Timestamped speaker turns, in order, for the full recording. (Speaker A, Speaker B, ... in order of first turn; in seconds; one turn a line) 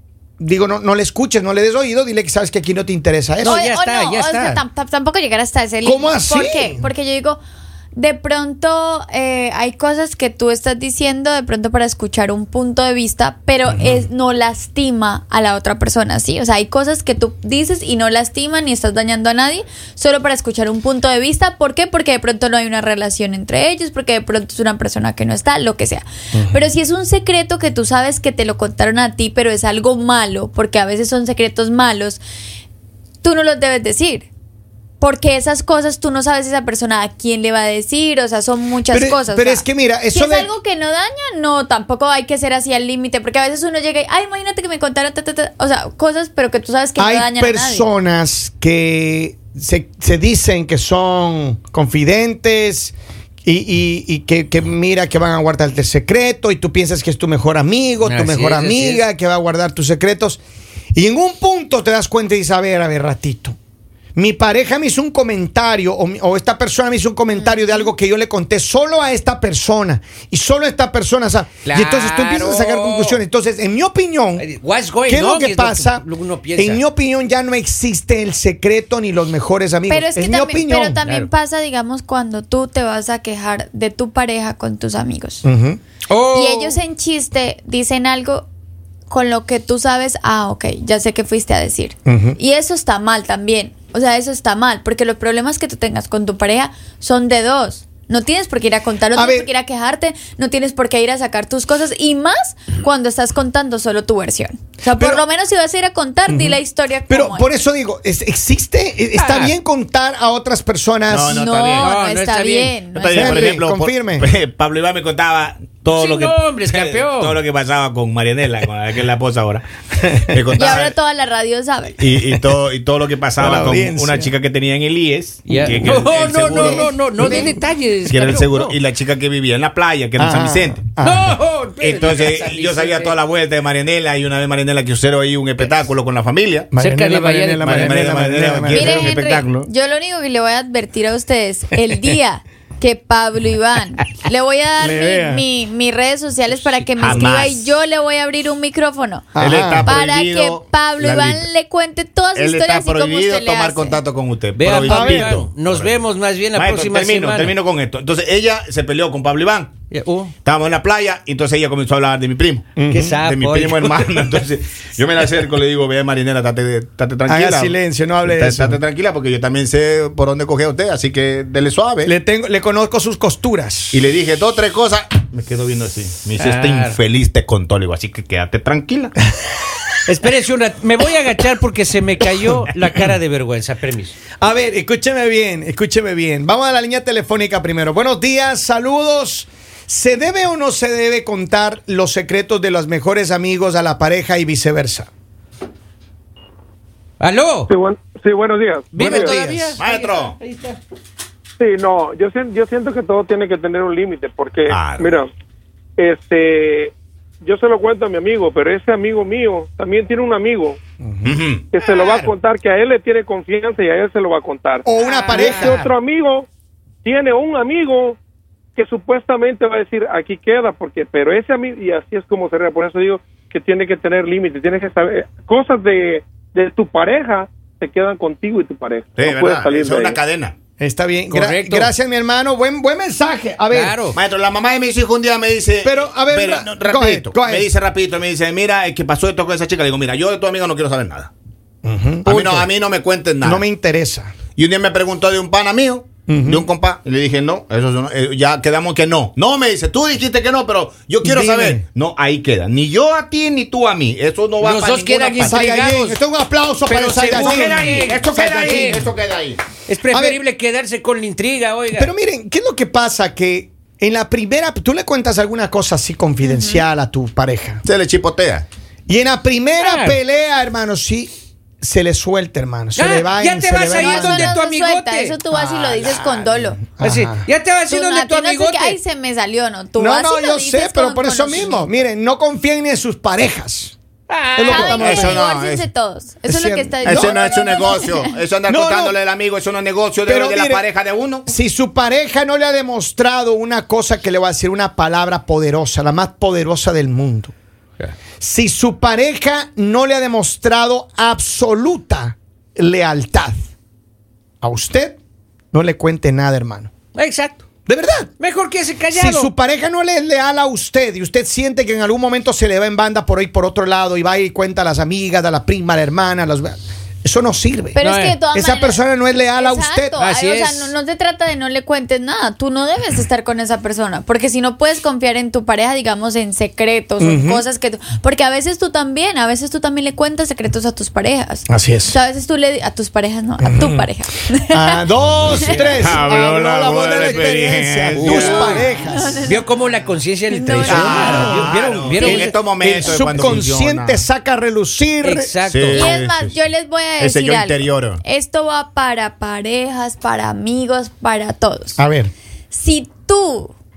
Speaker A: 0.4-3.7
Speaker B: 3.4-4.6
Speaker C: 3.4-7.4
Speaker A: 5.8-6.8
Speaker C: 8.0-32.2
Speaker A: 13.7-14.1
Speaker A: 26.3-26.6
Speaker C: 33.2-34.3
Speaker C: 35.0-47.9
Speaker A: 38.9-40.5
Speaker A: 47.0-60.4
Speaker B: 58.0-59.0
Speaker A: 60.9-63.6
Speaker A: 64.2-74.5
Speaker B: 71.7-73.2
Speaker B: 74.4-76.8
Speaker A: 75.1-81.0
Speaker C: 79.9-85.5
Speaker B: 81.0-81.3
Speaker A: 85.4-85.8
Speaker B: 86.1-86.8
Speaker C: 86.3-88.5
Speaker C: 89.1-107.5
Speaker A: 92.1-92.4
Speaker A: 99.1-99.5
Speaker A: 105.0-105.2
Speaker A: 106.3-111.4
Speaker B: 109.2-109.5
Speaker D: 111.1-111.9
Speaker C: 111.3-113.6
Speaker B: 111.8-112.8
Speaker D: 113.0-119.7
Speaker A: 113.1-114.3
Speaker B: 115.9-117.4
Speaker A: 120.0-120.3
Speaker D: 120.3-121.0
Speaker C: 120.6-122.0
Speaker D: 122.0-127.5
Speaker A: 123.4-124.3
Speaker B: 125.5-128.8
Speaker D: 128.1-130.8
Speaker A: 130.2-131.4
Speaker B: 131.0-133.2
Speaker D: 131.8-136.7
Speaker A: 136.7-139.4
Speaker B: 136.8-138.0
Speaker D: 137.6-139.7
Speaker C: 138.7-149.3
Speaker A: 144.8-145.4
Speaker D: 147.0-147.7
Speaker A: 149.3-149.9
Speaker D: 149.4-151.5
Speaker C: 149.8-154.0
Speaker D: 152.3-156.0
Speaker B: 154.5-157.6
Speaker A: 154.8-155.4
Speaker D: 156.6-159.7
Speaker B: 159.9-160.3
Speaker D: 160.4-172.1
Speaker A: 162.8-163.2
Speaker B: 162.9-164.4
Speaker A: 167.3-168.8
Speaker A: 172.0-174.0
Speaker D: 173.9-179.1
Speaker B: 176.4-177.0
Speaker B: 180.1-184.2
Speaker A: 184.4-195.1
Speaker B: 197.2-197.7
Speaker E: 197.7-199.5
Speaker B: 198.9-200.8
Speaker D: 199.0-200.4
Speaker E: 201.6-205.3
Speaker D: 204.7-205.2
Speaker E: 206.0-210.8
Speaker A: 211.0-211.4
Speaker D: 211.2-212.2
Speaker E: 211.7-216.5
Speaker A: 214.9-215.8
Speaker B: 215.0-215.8
Speaker E: 217.1-218.2
Speaker E: 218.8-230.2
Speaker D: 229.2-230.6
Speaker A: 230.8-233.9
Speaker B: 231.3-231.9
Speaker B: 233.7-234.2
Speaker D: 234.1-241.3
Speaker A: 235.8-237.7
Speaker A: 241.8-242.7
Speaker D: 242.2-243.6
Speaker A: 243.4-244.4
Speaker D: 244.6-255.6
Speaker A: 246.3-246.7
Speaker A: 251.2-251.8
Speaker B: 254.6-256.2
Speaker A: 255.4-258.0
Speaker B: 256.9-259.1
Speaker D: 257.2-259.6
Speaker A: 258.6-259.0
Speaker B: 259.8-262.1
Speaker A: 260.1-260.4
Speaker A: 261.9-267.8
Speaker C: 266.4-266.8
Speaker D: 267.8-268.7
Speaker A: 269.1-271.3
Speaker B: 269.8-270.2
Speaker A: 271.8-274.6
Speaker B: 273.0-275.4
Speaker C: 274.0-276.8
Speaker A: 275.5-277.5
Speaker B: 277.0-279.0
Speaker C: 277.9-281.8
Speaker A: 280.0-283.9
Speaker B: 284.3-285.0
Speaker A: 284.6-285.4
Speaker C: 284.7-288.3
Speaker D: 285.0-285.9
Speaker A: 286.5-287.6
Speaker D: 287.0-291.5
Speaker A: 288.7-289.2
Speaker A: 290.2-290.8
Speaker A: 291.5-297.5
Speaker A: 298.4-303.6
Speaker A: 304.6-305.2
Speaker A: 305.7-306.9
Speaker B: 307.2-307.6
Speaker A: 307.9-308.3
Speaker B: 308.4-309.5
Speaker A: 309.1-318.0
Speaker C: 317.9-336.0
Speaker B: 318.0-318.4
Speaker A: 318.5-320.2
Speaker B: 320.2-320.9
Speaker A: 327.2-327.6
Speaker A: 331.7-332.2
Speaker A: 333.6-334.1
Speaker A: 334.7-339.4
Speaker B: 335.6-336.2
Speaker D: 336.0-338.7
Speaker B: 337.1-337.4
Speaker B: 338.2-338.9
Speaker C: 338.4-339.6
Speaker B: 339.4-342.5
Speaker C: 340.5-341.6
Speaker D: 340.9-344.3
Speaker A: 340.9-345.5
Speaker B: 345.2-346.1
Speaker D: 345.7-346.6
Speaker C: 345.9-352.0
Speaker D: 347.2-348.2
Speaker A: 352.0-352.3
Speaker C: 352.7-353.7